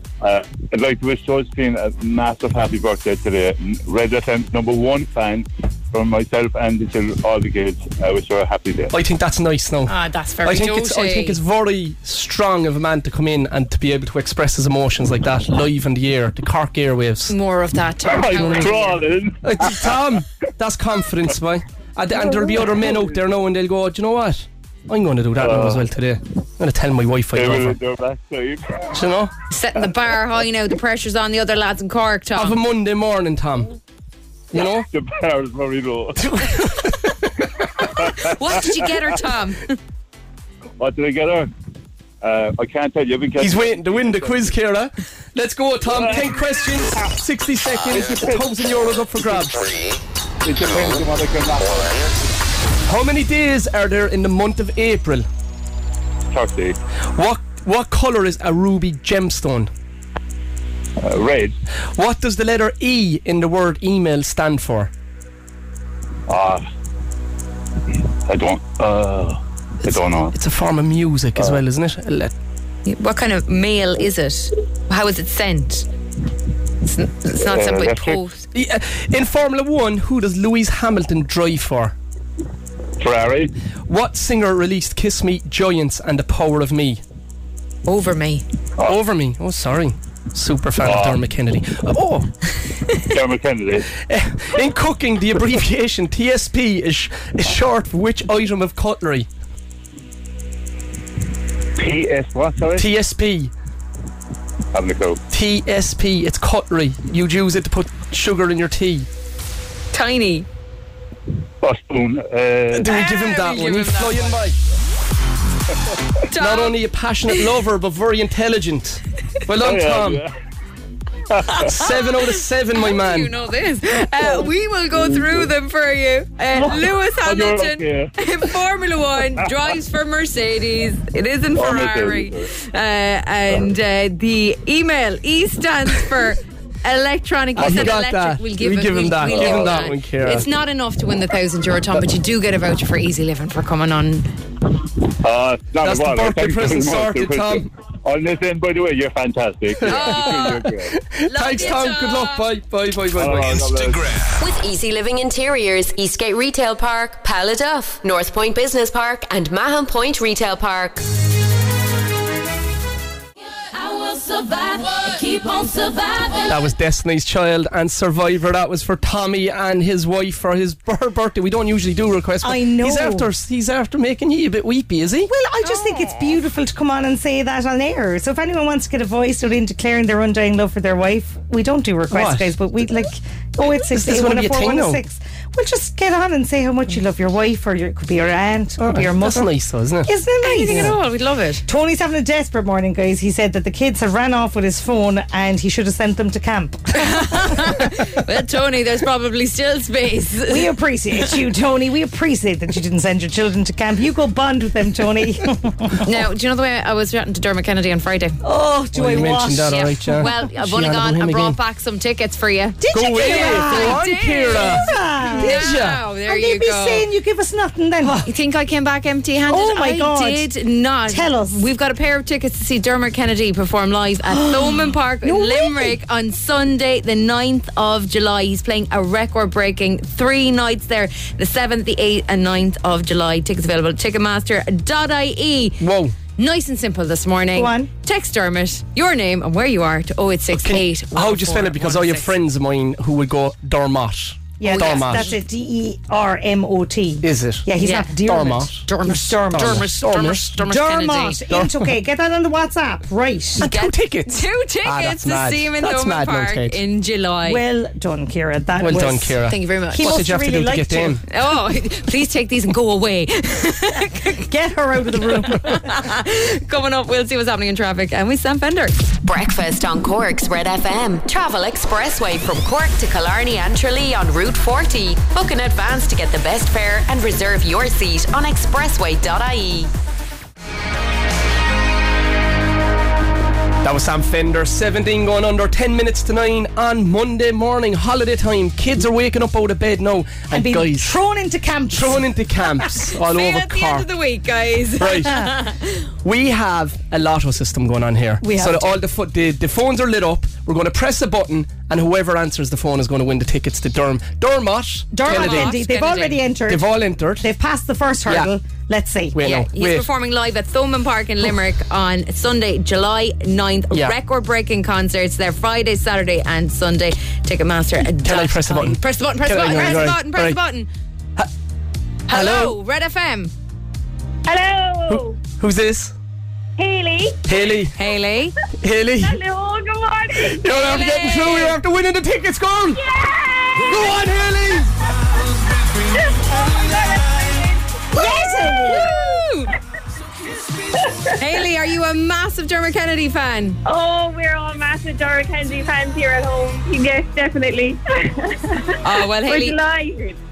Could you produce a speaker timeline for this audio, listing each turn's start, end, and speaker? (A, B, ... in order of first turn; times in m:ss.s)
0:00.2-0:09.0 A
0:08.9-0:17.3 B
0:09.9-0:11.4 C
0:17.3-0:19.0 C
0:18.0-0:20.0 A
0:18.3-0:18.8 B
0:19.4-0:27.8 B
0:25.4-0:25.8 A
0:27.3-0:28.9 A
0:28.9-0:29.3 B
0:29.5-0:32.6 C
0:32.4-0:33.7 B
0:34.5-0:34.9 B
0:34.5-0:36.3 A
0:36.2-0:37.4 B
0:37.8-0:38.9 A
0:38.2-0:39.8 C
0:40.8-0:41.5 A
0:42.2-0:44.6 A
0:43.4-0:49.7 B
0:45.9-0:47.1 A
0:47.9-0:48.5 A
0:50.4-0:52.1 A
0:52.9-0:55.3 B
0:56.3-0:56.8 A
0:57.1-0:59.7 B
1:01.0-1:01.5 A
1:01.9-1:04.9 B
1:06.3-1:06.7 A
1:08.2-1:10.3 A
1:09.9-1:12.3 B
1:12.8-1:15.9 C
1:16.8-1:18.5 C
1:17.4-1:18.2 A
1:18.5-1:22.0 B
1:23.0-1:23.5 A
1:23.9-1:27.0 B
1:27.8-1:28.4 C
1:28.8-1:32.3 B
1:30.8-1:31.2 A
1:33.0-1:33.9 A
1:34.0-1:39.3 B
1:41.8-1:42.9 A
1:42.8-1:43.5 B
1:44.7-1:45.2 A
1:45.3-1:49.1 B
1:49.9-1:50.5 C
1:51.6-1:52.9 A
1:52.7-1:54.6 B
1:52.8-1:54.4 C
1:56.3-1:56.8 C
1:56.3-2:00.2 B
1:59.6-2:00.3 A
2:01.3-2:01.7 A
2:01.5-2:24.3 C
2:01.5-2:03.3 B
2:04.2-2:05.5 A
2:06.6-2:08.1 A
2:11.5-2:12.5 A
2:17.6-2:20.5 B
2:17.6-2:17.9 A
2:25.2-2:30.9 A
2:25.8-2:27.7 B
2:29.8-2:33.6 B
2:29.8-2:30.7 C
2:31.2-2:32.5 C
2:33.1-2:34.2 A
2:34.4-2:41.1 D
2:43.7-2:46.5 E
2:46.5-2:55.3 B
2:52.4-2:53.3 F
2:55.3-3:09.5 F
2:55.6-2:56.2 C
3:02.1-3:02.6 B
3:03.6-3:05.0 B
3:08.8-3:10.1 B
3:10.0-3:11.0 F
3:10.4-3:11.6 C
3:10.7-3:11.0 B
3:11.6-3:17.8 F
3:16.9-3:21.3 C
3:20.5-3:26.1 F
3:26.0-3:28.4 C
3:28.4-3:30.3 F
3:28.9-3:31.6 B
3:30.1-3:37.0 C
3:32.8-3:38.3 F
3:32.9-3:36.0 B
3:38.2-3:55.8 C
3:39.5-3:40.5 F
3:41.1-3:41.6 F
3:44.3-3:46.0 F
3:55.8-3:56.2 B
3:56.4-4:02.3 C
3:57.5-3:57.9 F
4:00.5-4:05.3 B
4:04.6-4:09.9 F
4:04.6-4:05.4 C
4:07.2-4:08.8 B
4:07.8-4:08.1 C
4:08.8-4:11.4 C
4:09.5-4:10.7 B
4:10.6-4:13.6 F
4:11.5-4:11.9 B
4:13.6-4:16.8 B
4:13.6-4:17.6 C
4:17.4-4:19.4 F
4:18.8-4:21.2 B
4:19.5-4:20.2 C
4:19.9-4:21.2 F
4:21.3-4:24.5 C
4:24.5-4:26.0 F
4:25.1-4:29.0 C
4:29.2-4:39.9 D
4:43.8-4:51.1 B
4:50.5-4:52.3 F
4:51.9-4:54.1 B
4:53.1-4:56.1 C
4:55.0-4:55.5 B
4:56.2-5:05.8 B
4:58.4-4:59.0 F
5:05.1-5:06.9 F
5:05.2-5:06.4 C
5:06.7-5:07.5 B
5:07.4-5:09.4 F
5:09.3-5:10.1 B
5:09.4-5:20.9 C
5:18.0-5:20.6 B
5:22.3-5:23.5 C
5:22.3-5:22.8 B
5:24.4-5:25.4 G
5:25.1-5:26.1 B
5:26.8-5:27.5 G
5:27.5-5:27.9 B
5:27.9-5:28.5 C
5:28.8-5:29.4 B
5:29.2-5:31.2 G
5:30.3-5:33.0 B
5:30.7-5:31.8 C
5:32.9-5:34.3 G
5:33.9-5:34.9 B
5:36.1-5:39.1 G
5:36.6-5:37.2 E
5:38.1-5:39.1 F
5:38.9-5:39.7 C
5:40.9-5:41.3 G
5:41.4-5:43.8 C
5:43.8-5:50.4 G
5:49.0-5:49.8 C